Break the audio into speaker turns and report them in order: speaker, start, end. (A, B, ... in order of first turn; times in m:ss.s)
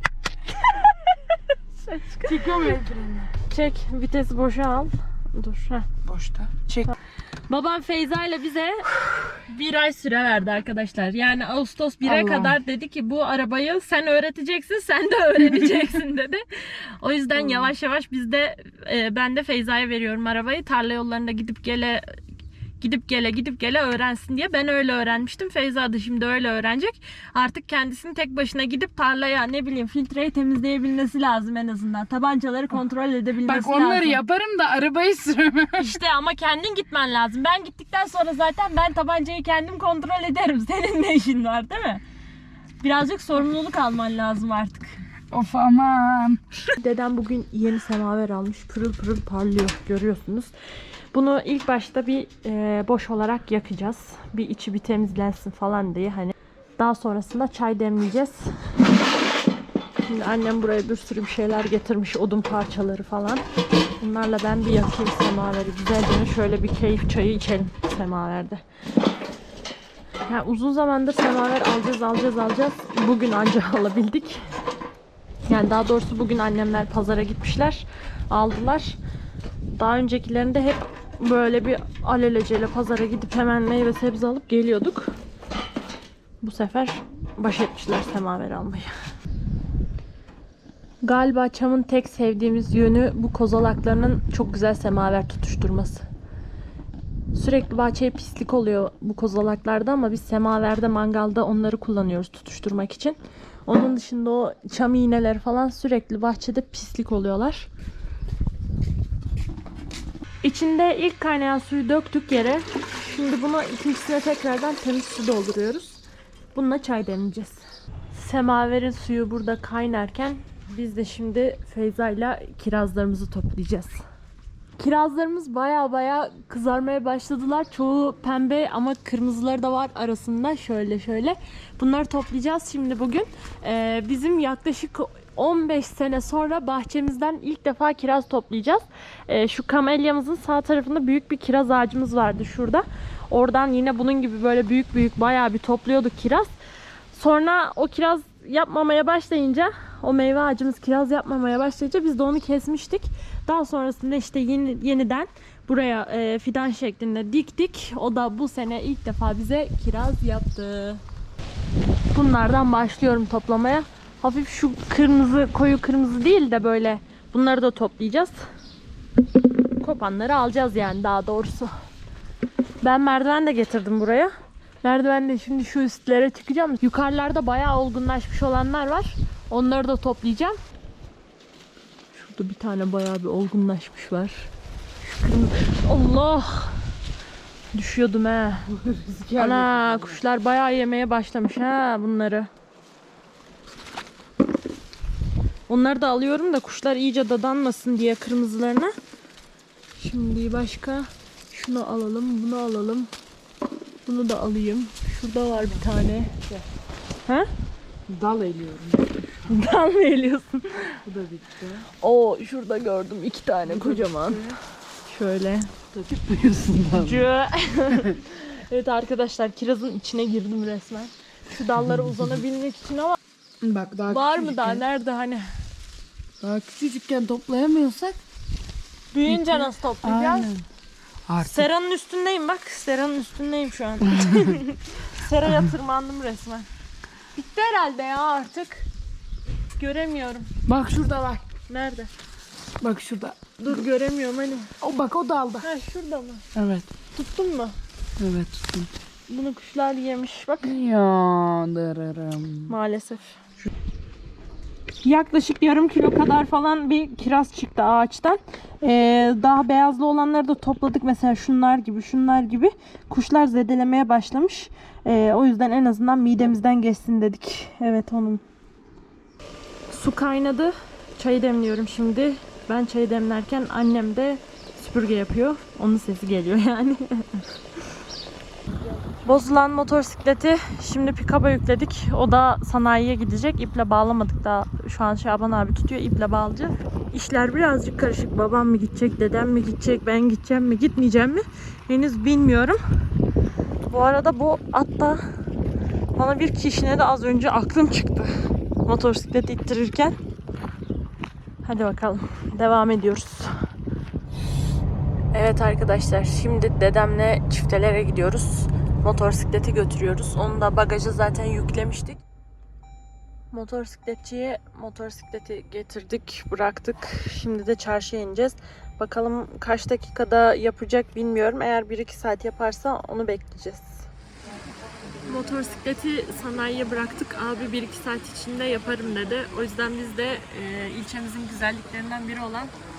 0:01.8-0:02.8 A
0:02.2-0:03.3 B
0:03.5-0:05.9 A
0:06.1-0:06.9 B
0:07.5-0:22.2 A
0:12.0-0:12.6 B
0:17.4-0:17.7 B
0:22.8-0:34.2 A
0:33.5-0:36.0 B
0:35.8-0:42.0 A
0:42.8-0:45.0 A
0:45.3-0:46.4 B
0:46.7-0:50.5 A
0:51.1-0:58.6 A
1:00.0-1:03.4 A
1:04.0-1:08.6 A
1:10.3-1:14.4 A
1:15.5-1:19.0 A
1:19.8-1:25.2 A
1:26.4-1:28.9 A
1:31.0-1:36.0 A
1:37.3-1:47.7 A
1:50.4-1:56.0 A
1:56.5-2:04.0 A
2:04.8-2:26.5 A
2:27.1-2:41.0 A
2:42.1-2:48.4 A
2:49.8-2:51.7 A
2:52.8-2:54.3 A
2:54.8-3:00.6 A
3:02.1-3:04.5 A
3:05.0-3:06.8 A
3:07.7-3:08.7 A
3:08.7-3:10.2 B
3:09.4-3:12.5 A
3:15.7-3:18.9 A
3:20.0-3:23.1 A
3:24.1-3:26.3 A
3:25.5-3:26.6 B
3:28.1-3:29.5 B
3:29.5-3:31.0 A
3:31.0-3:31.9 B
3:32.0-3:34.4 A
3:33.7-3:34.6 B
3:35.1-3:35.7 A
3:35.9-3:37.3 B
3:37.0-3:43.2 A
3:43.6-3:44.8 B
3:44.1-3:45.5 A
3:46.4-3:48.2 B
3:49.1-3:50.5 A
3:49.3-3:50.6 B
3:51.3-3:51.7 B
3:51.4-3:56.7 A
3:54.2-3:54.5 B
3:57.4-3:58.9 A
3:59.8-4:00.5 A
4:00.7-4:01.4 B
4:01.7-4:02.1 A
4:02.8-4:03.4 B
4:03.6-4:04.7 A
4:04.8-4:05.7 B
4:05.6-4:06.4 A
4:06.6-4:06.9 B
4:07.2-4:07.8 A
4:08.2-4:08.9 B
4:09.3-4:10.7 A
4:10.6-4:12.7 B
4:12.7-4:13.4 A
4:15.0-4:28.4 A
4:29.9-4:37.4 A
4:39.2-4:52.8 A
4:53.9-4:55.2 A
4:56.2-4:58.3 A
4:58.8-5:00.2 A
5:01.6-5:03.5 A
5:05.3-5:12.2 A
5:13.5-5:24.1 A
5:25.3-5:32.7 A